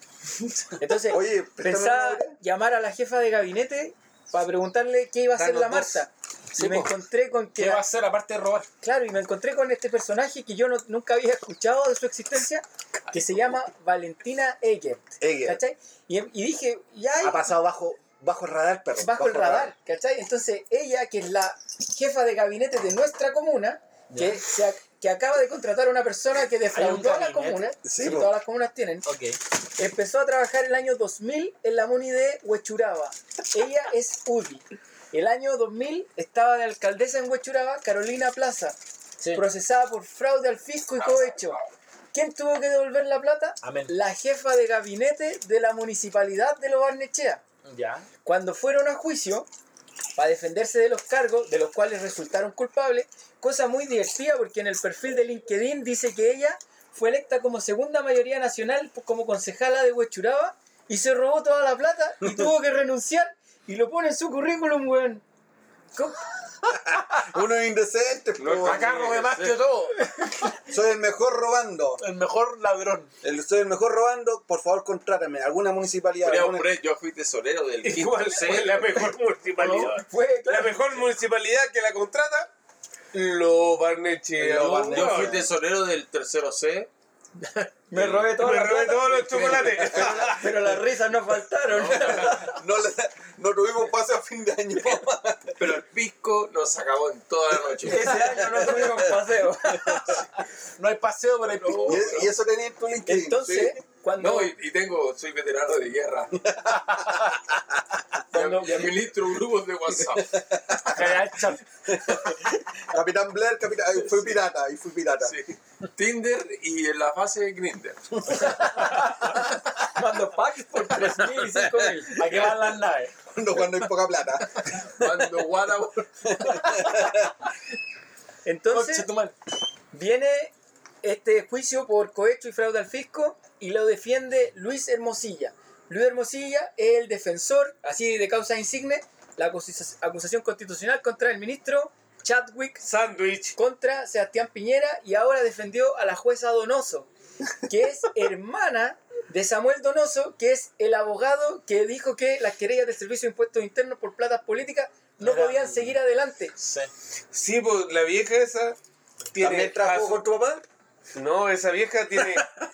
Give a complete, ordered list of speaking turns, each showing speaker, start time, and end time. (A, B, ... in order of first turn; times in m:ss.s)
0:00.8-0:07.8 A
0:00.9-0:02.4 B
0:05.4-0:05.9 C
0:06.6-0:06.9 D
0:07.5-0:08.7 D
0:08.8-0:17.5 A
0:15.2-0:15.6 B
0:17.2-0:19.7 B
0:19.0-0:29.1 A
0:24.1-0:24.4 D
0:26.7-0:27.7 D
0:27.8-0:28.3 B
0:29.0-0:29.4 D
0:29.8-0:38.8 A
0:39.2-0:39.4 D
0:39.3-0:41.6 A
0:42.1-0:47.4 A
0:43.6-0:43.9 D
0:47.6-0:48.1 D
0:48.2-0:49.5 A
0:50.2-1:05.2 A
1:06.0-1:06.2 A
1:06.7-1:08.9 B
1:08.4-1:09.7 E
1:08.6-1:10.5 D
1:10.6-1:12.0 B
1:12.0-1:13.1 D
1:13.2-1:16.7 B
1:16.2-1:19.9 E
1:17.8-1:22.5 C
1:20.0-1:20.8 A
1:23.1-1:25.4 C
1:24.4-1:25.5 B
1:24.6-1:24.9 D
1:24.7-1:26.9 E
1:27.4-1:28.4 E
1:27.9-1:32.5 A
1:28.4-1:30.4 C
1:30.0-1:30.4 B
1:31.7-1:32.5 E
1:32.2-1:35.8 B
1:35.6-1:38.4 E
1:37.8-1:39.1 B
1:37.9-1:40.2 A
1:40.0-1:42.2 D
1:41.5-1:42.3 E
1:41.8-1:43.6 B
1:43.1-1:44.5 A
1:43.5-1:46.5 E
1:46.4-1:47.4 B
1:46.9-1:47.3 D
1:48.3-1:49.0 A
1:48.3-1:50.5 E
1:50.1-1:51.2 B
1:50.8-1:51.6 D
1:51.9-1:55.4 B
1:55.2-1:58.4 E
1:58.5-1:59.5 D
1:58.6-2:02.2 A
2:02.1-2:03.1 D
2:03.3-2:05.5 B
2:04.8-2:06.1 E
2:06.3-2:07.3 B
2:06.7-2:07.1 D
2:08.4-2:09.1 A
2:08.7-2:09.3 D
2:09.9-2:22.8 A
2:22.8-2:23.6 C
2:23.6-2:27.1 A
2:27.6-2:36.6 A
2:35.2-2:36.0 D
2:36.6-2:36.9 D
2:37.3-2:38.8 C
2:39.3-2:40.2 C
2:39.4-2:40.6 B
2:41.2-2:42.5 C